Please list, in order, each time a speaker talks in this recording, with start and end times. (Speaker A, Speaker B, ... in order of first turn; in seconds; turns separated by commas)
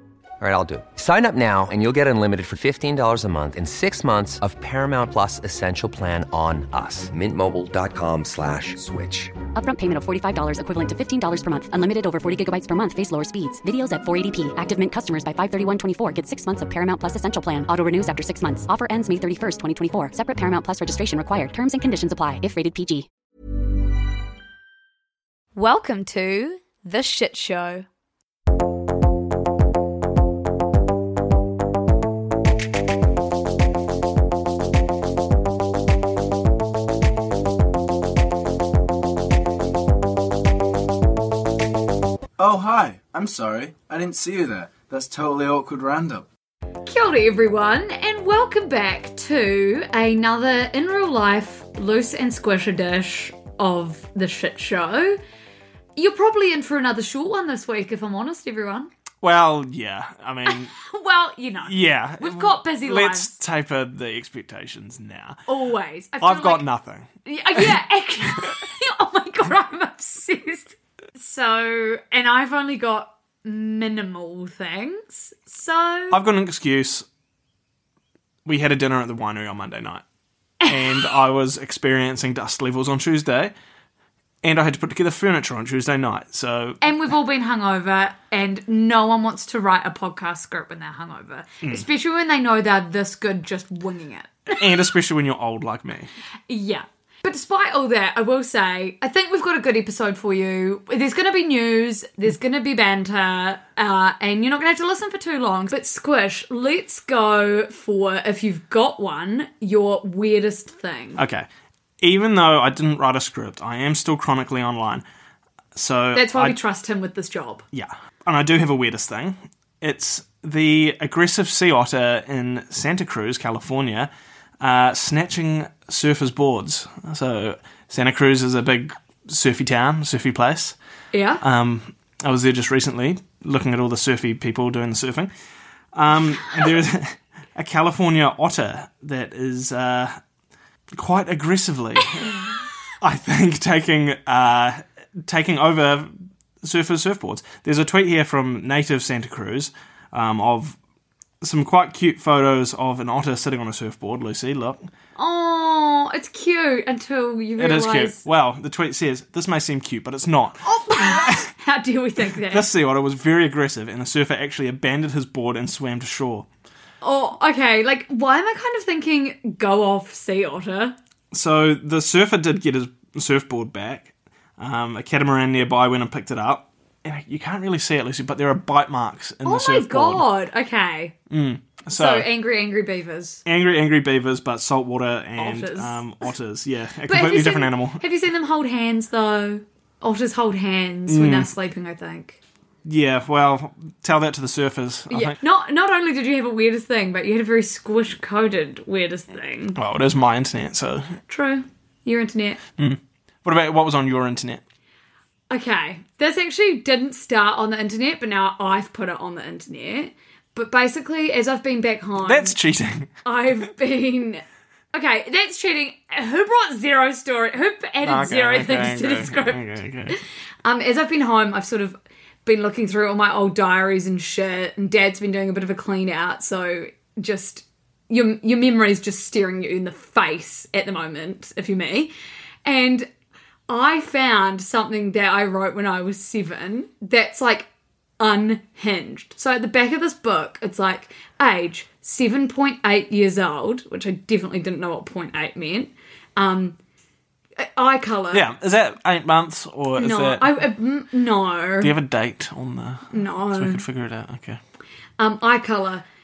Speaker A: 0.4-9.3, Speaker B: 9.6-23.1, Speaker C: 25.6-27.9, Speaker D: 42.4-46.3, Speaker C: 46.9-55.2, Speaker C: 56.0-58.9, Speaker E: 59.2-60.8, Speaker C: 60.5-63.4, Speaker E: 61.6-65.4, Speaker C: 65.5-66.6, Speaker E: 66.2-67.8, Speaker C: 67.2-76.2, Speaker E: 76.1-77.1, Speaker E: 78.5-80.0, Speaker C: 80.6-81.2, Speaker E: 80.7-83.5, Speaker E: 84.4-86.8, Speaker C: 86.8-94.8, Speaker E: 94.5-96.1, Speaker C: 96.5-111.2, Speaker E: 111.2-111.5, Speaker E: 112.0-115.0, Speaker E: 115.8-116.6, Speaker C: 116.2-117.6, Speaker E: 117.7-124.1, Speaker E: 124.6-130.8, Speaker C: 131.1-131.4, Speaker E: 131.4-135.3, Speaker E: 135.9-140.2, Speaker E: 141.0-142.4, Speaker E: 143.0-146.1, Speaker E: 146.6-150.8, Speaker E: 151.4-154.8, Speaker C: 155.2-158.2, Speaker E: 157.6-161.5, Speaker C: 160.6-162.7, Speaker E: 162.3-166.5, Speaker C: 167.0-171.0, Speaker E: 171.3-180.2, Speaker C: 179.4-181.2, Speaker E: 181.3-182.3, Speaker C: 181.9-183.4, Speaker E: 183.5-188.0, Speaker C: 185.4-186.0, Speaker C: 187.1-192.4, Speaker E: 191.1-191.5, Speaker E: 192.8-195.4, Speaker C: 195.1-199.8, Speaker E: 199.8-201.2, Speaker C: 201.3-202.6, Speaker E: 202.8-204.6, Speaker C: 205.5-212.6, Speaker E: 212.2-213.1, Speaker C: 213.2-232.1, Speaker E: 218.0-220.2, Speaker C: 232.7-233.1, Speaker C: 233.7-237.7, Speaker C: 238.2-246.8, Speaker C: 247.6-248.4, Speaker E: 248.3-250.6, Speaker C: 250.0-251.9, Speaker E: 251.8-254.6, Speaker C: 253.1-253.8, Speaker C: 255.2-256.0